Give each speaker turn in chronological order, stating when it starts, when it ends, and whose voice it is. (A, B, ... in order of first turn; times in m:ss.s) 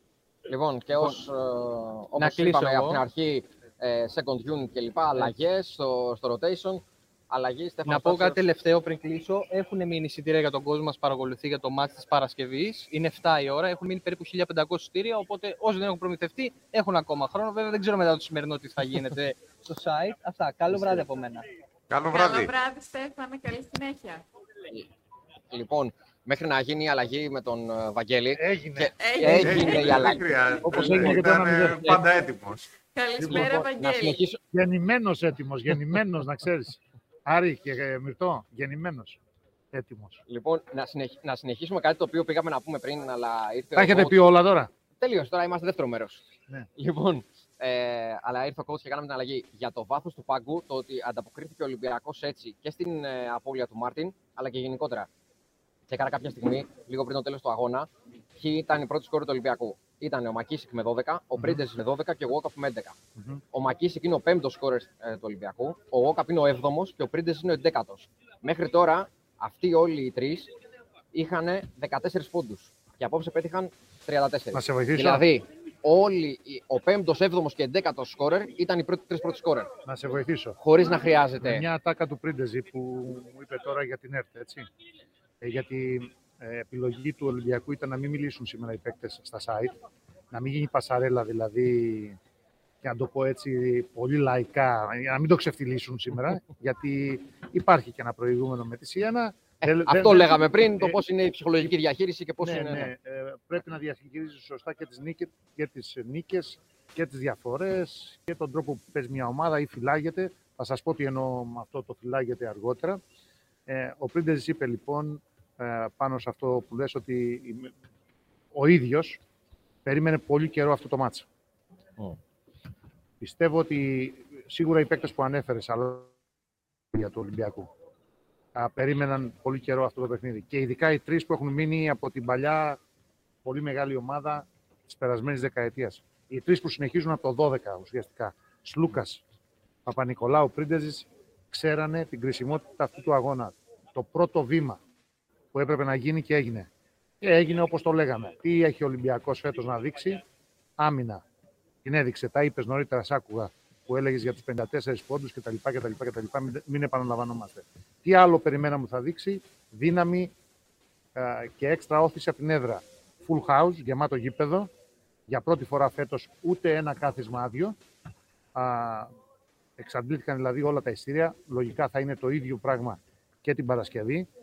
0:00.5-0:08.4 A
0:02.2-0:03.0 B
0:07.9-0:21.4 B
0:21.9-0:22.5 C
0:22.1-0:24.2 D
0:25.5-0:31.2 A
0:28.3-0:29.4 E
0:29.0-0:30.0 D
0:29.3-0:32.7 C
0:30.6-0:31.9 E
0:32.9-0:34.2 D
0:33.2-0:33.7 E
0:33.3-0:34.4 A
0:34.5-0:39.2 E
0:39.7-0:40.2 E
0:40.3-0:44.2 A
0:43.7-0:44.7 E
0:45.0-0:46.2 A
0:46.8-0:55.1 A
0:55.9-1:03.0 A
1:01.4-1:01.6 E
1:03.2-1:03.4 E
1:03.5-1:10.5 A
1:11.1-1:19.7 A
1:14.5-1:15.2 E
1:19.8-1:20.6 E
1:20.6-1:21.6 A
1:21.4-1:24.6 E
1:25.4-1:29.7 E
1:30.3-1:32.2 E
1:32.8-1:41.0 E
1:39.6-1:42.9 A
1:42.4-1:53.0 E
1:53.7-1:57.7 E
1:58.5-1:59.2 E
1:59.8-2:01.2 E
2:03.2-2:06.1 E
2:06.9-2:07.7 E
2:08.5-2:12.8 E
2:13.4-2:19.2 E
2:19.8-2:24.8 E
2:25.5-2:26.7 E
2:27.2-2:30.2 E
2:30.8-2:31.2 E
2:31.8-2:40.3 E
2:41.2-2:44.7 E
2:45.3-2:47.8 E
2:48.5-2:49.1 E
2:49.8-2:54.3 E